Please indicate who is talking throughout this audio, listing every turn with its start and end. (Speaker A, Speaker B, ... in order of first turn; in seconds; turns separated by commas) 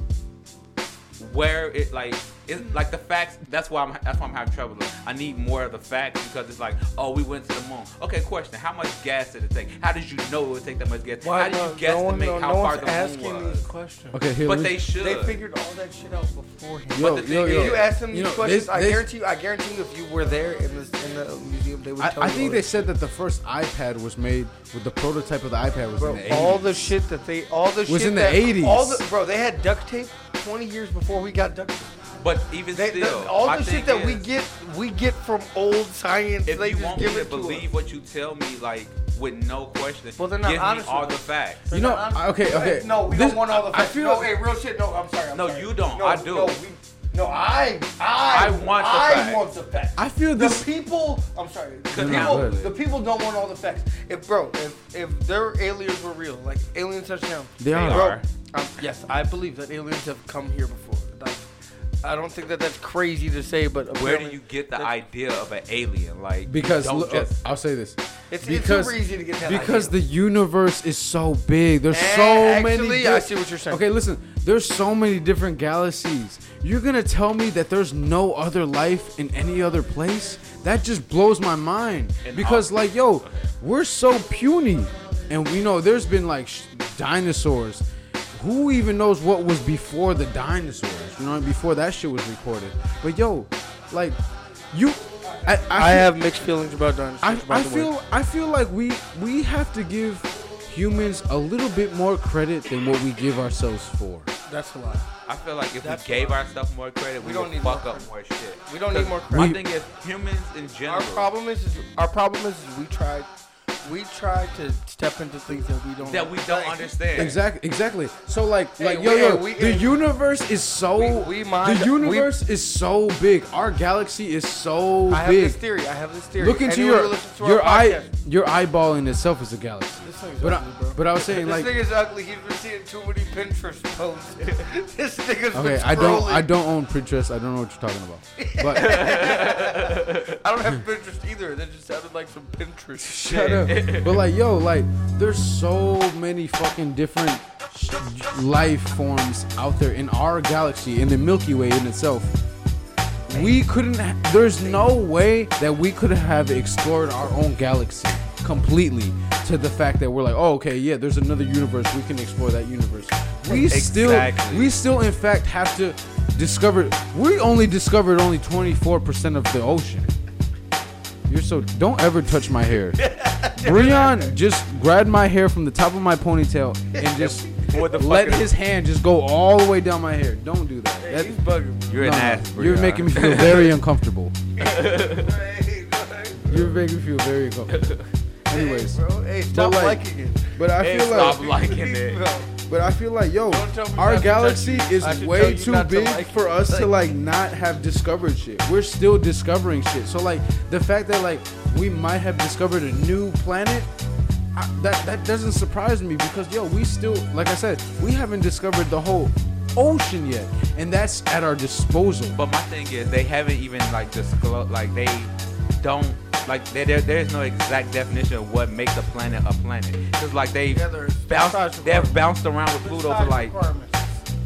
Speaker A: 1.2-13.7, Speaker B: 11.2-14.2, Speaker C: 14.1-14.8, Speaker A: 14.4-15.4, Speaker B: 15.0-22.9, Speaker C: 16.9-19.1, Speaker A: 17.0-17.9, Speaker C: 22.0-26.9, Speaker B: 26.0-31.9, Speaker A: 26.2-26.6, Speaker C: 27.9-29.1, Speaker A: 32.2-34.3, Speaker B: 32.7-37.7, Speaker A: 36.5-41.7, Speaker B: 40.2-61.4, Speaker C: 41.7-44.4, Speaker A: 45.3-46.6, Speaker A: 48.3-49.5, Speaker C: 50.0-50.7, Speaker A: 51.9-52.7, Speaker C: 51.9-52.7, Speaker C: 57.6-58.2, Speaker A: 57.7-58.2, Speaker B: 62.0-65.0, Speaker A: 63.9-67.4, Speaker C: 66.5-94.2, Speaker B: 68.3-70.0, Speaker B: 71.9-73.8, Speaker A: 82.2-83.5, Speaker C: 94.7-96.1, Speaker B: 95.3-97.9, Speaker C: 97.2-104.3, Speaker B: 104.5-105.1, Speaker A: 105.3-111.3, Speaker B: 105.8-106.4, Speaker B: 107.2-108.1, Speaker B: 108.7-109.5, Speaker C: 109.3-109.7, Speaker B: 110.9-113.3, Speaker B: 113.8-117.3, Speaker A: 116.0-117.4, Speaker C: 117.2-125.6, Speaker B: 118.8-120.0, Speaker B: 120.9-122.3, Speaker B: 125.1-128.1, Speaker C: 126.4-131.8, Speaker B: 130.0-136.5, Speaker C: 135.5-139.1, Speaker B: 138.4-143.9, Speaker A: 138.8-140.4, Speaker C: 143.0-152.3, Speaker A: 143.7-144.2, Speaker C: 153.3-170.1, Speaker B: 153.3-153.6, Speaker B: 154.6-154.9, Speaker A: 163.5-164.7, Speaker C: 171.3-173.0, Speaker B: 172.9-174.3, Speaker C: 173.6-181.4, Speaker B: 176.9-178.0, Speaker A: 177.7-178.5, Speaker B: 181.0-182.2, Speaker A: 181.9-183.8, Speaker C: 181.9-184.4, Speaker B: 184.6-186.7, Speaker A: 184.6-185.3, Speaker C: 186.5-188.0, Speaker A: 187.7-188.1, Speaker C: 188.5-190.0, Speaker B: 188.5-192.5, Speaker C: 190.5-191.5, Speaker A: 190.8-192.2, Speaker C: 192.7-203.9, Speaker B: 193.5-197.0, Speaker C: 204.5-212.4, Speaker A: 212.3-223.5, Speaker B: 220.7-222.2, Speaker B: 222.7-224.2